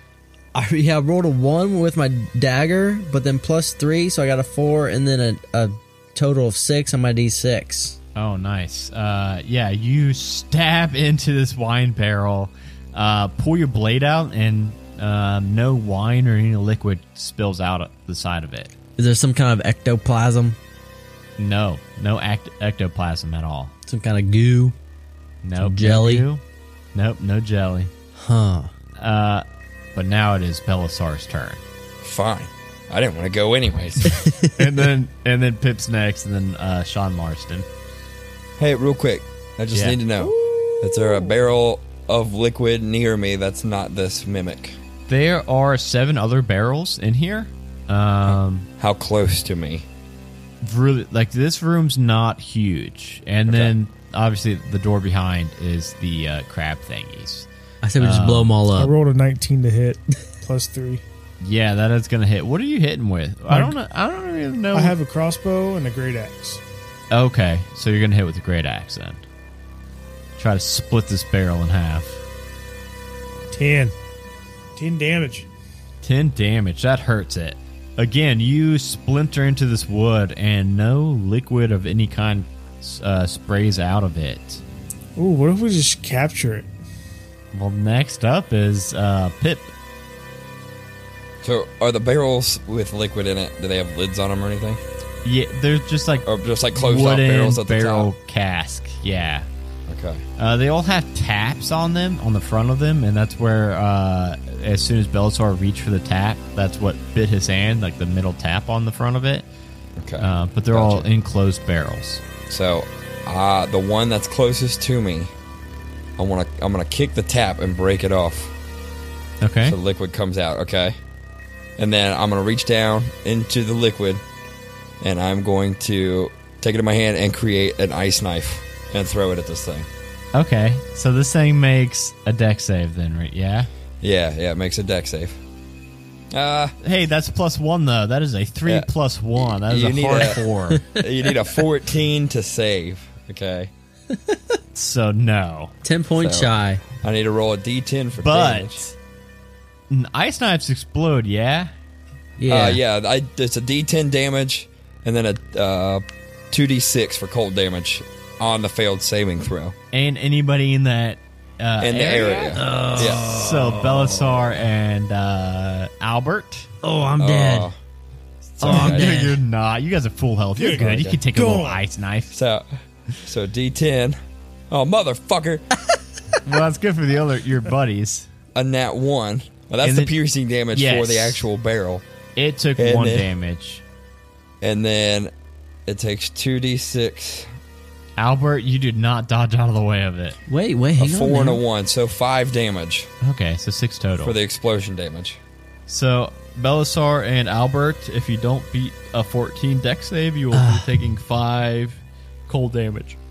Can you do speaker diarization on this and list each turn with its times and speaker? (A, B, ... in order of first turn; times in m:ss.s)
0:00.5-0:08.0 A
0:08.2-0:18.7 B
0:19.0-0:20.6 A
0:21.4-0:23.7 B
0:23.9-0:24.8 A
0:25.4-0:26.4 B
0:25.6-0:26.3 A
0:27.0-0:27.9 B
0:28.2-0:28.7 A
0:29.0-0:31.6 B
0:32.0-0:34.2 C
0:34.1-0:34.5 A
0:34.6-0:37.7 B
0:38.6-0:44.8 C
0:39.7-0:40.0 B
0:40.2-0:41.4 D
0:45.1-0:48.7 B
0:48.3-0:49.9 C
0:50.6-0:57.5 B
0:53.5-0:53.7 C
0:57.8-0:58.9 A
0:58.0-0:58.6 B
0:58.8-1:01.0 D
1:01.4-1:04.9 B
1:03.5-1:03.7 D
1:04.7-1:06.6 D
1:07.1-1:09.2 B
1:10.4-1:12.2 B
1:13.5-1:14.0 D
1:14.8-1:15.5 D
1:16.0-1:24.6 B
1:25.2-1:26.7 D
1:27.5-1:29.7 B
1:31.4-1:34.8 C
1:35.2-1:39.5 B
1:36.3-1:38.1 C
1:39.9-1:40.2 C
1:40.4-1:49.5 B
1:50.0-1:51.1 C
1:50.2-1:52.2 B
1:52.5-1:55.3 C
1:56.2-1:58.5 C
1:59.4-1:59.8 B
1:59.6-2:01.0 C
2:01.8-2:04.2 C
2:05.0-2:09.9 C
2:10.3-2:13.7 B
2:14.0-2:15.4 C
2:16.3-2:16.8 C
2:16.8-2:20.8 B
2:19.6-2:20.4 C
2:20.8-2:21.3 A
2:21.0-2:23.7 C
2:24.1-2:24.4 A
2:24.7-2:25.7 B
2:25.8-2:26.8 A
2:26.2-2:28.8 C
2:28.2-2:29.0 B
2:29.9-2:31.7 B
2:32.4-2:32.8 A
2:32.5-2:39.8 C
2:39.9-2:46.7 B
2:41.8-2:43.3 C
2:42.6-2:44.1 A
2:46.8-2:47.7 A
2:47.2-2:47.8 C
2:48.6-2:49.2 C
2:48.6-2:52.4 B
2:48.6-2:49.4 A
2:50.6-2:51.8 D
2:50.8-2:51.2 C
2:52.3-2:52.7 C
2:53.2-2:54.2 C
2:54.7-2:55.6 C
2:56.4-2:58.3 B
2:58.6-3:02.0 C
2:59.8-3:00.1 B
3:00.7-3:01.4 B
3:02.4-3:03.8 B
3:02.8-3:03.3 C
3:04.6-3:05.3 C
3:05.9-3:07.5 C
3:08.2-3:10.4 B
3:10.5-3:11.6 A
3:11.0-3:13.1 C
3:13.2-3:14.4 B
3:14.2-3:15.4 C
3:15.9-3:23.2 B
3:20.5-3:20.9 A